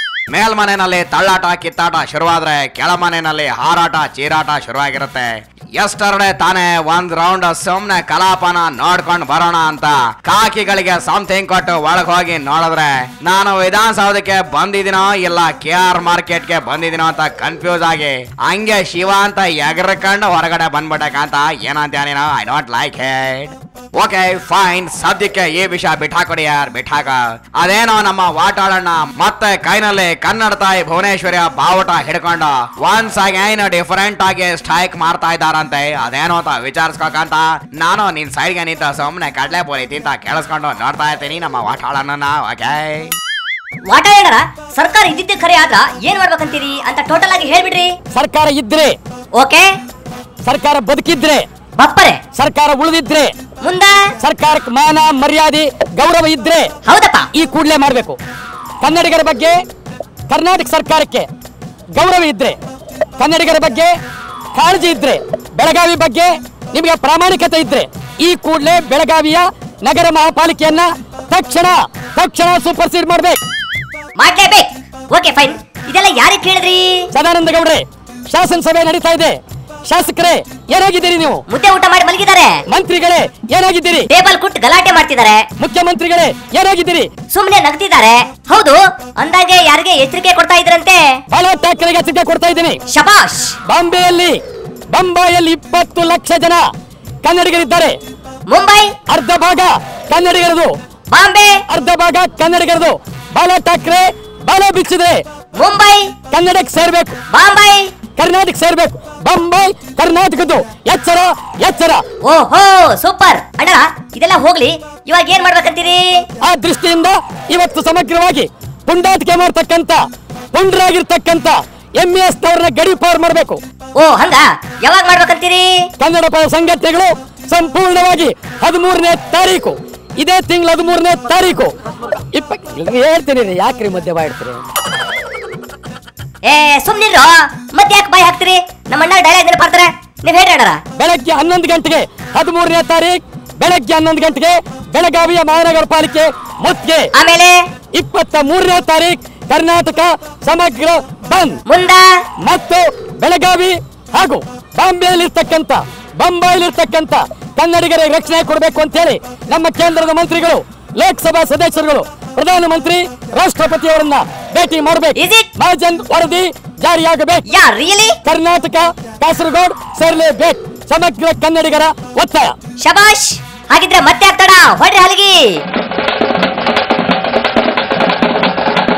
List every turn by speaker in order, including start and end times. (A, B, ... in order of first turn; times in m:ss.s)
0:00.3-0:43.1 A
0:43.8-0:47.9 B
0:48.1-0:48.9 C
0:49.4-0:49.7 B
0:50.4-0:51.4 C
0:51.8-0:52.2 B
0:52.3-0:53.3 C
0:53.6-0:54.0 B
0:54.2-0:56.7 C
0:56.8-0:57.3 B
0:57.3-0:58.2 C
0:58.8-0:59.6 C
1:00.3-1:01.3 C
1:02.0-1:02.6 C
1:03.2-1:03.9 C
1:04.5-1:13.4 C
1:14.2-1:17.0 B
1:17.1-1:21.4 C
1:21.5-1:22.6 B
1:22.7-1:24.1 C
1:24.1-1:25.4 B
1:25.6-1:27.1 C
1:27.3-1:31.2 B
1:31.3-1:32.8 C
1:32.9-1:33.6 B
1:33.6-1:34.4 C
1:34.9-1:36.6 C
1:37.2-1:38.0 C
1:38.5-1:38.9 B
1:39.1-1:40.7 C
1:41.1-1:41.6 B
1:41.7-1:45.2 C
1:45.6-1:46.1 B
1:46.3-1:47.2 C
1:47.3-1:47.9 B
1:48.2-1:52.0 C
1:52.2-1:56.2 B
1:56.4-2:03.6 C
2:04.0-2:05.8 B
2:06.0-2:11.7 C
2:12.3-2:14.6 C
2:16.4-2:20.8 B
2:21.0-2:27.1 C
2:27.1-2:27.6 B
2:27.9-2:31.6 C
2:31.6-2:32.1 B
2:32.4-2:47.4 C
2:45.1-2:45.5 B
2:47.5-2:48.2 B
2:48.2-2:52.5 C
2:52.8-2:55.6 B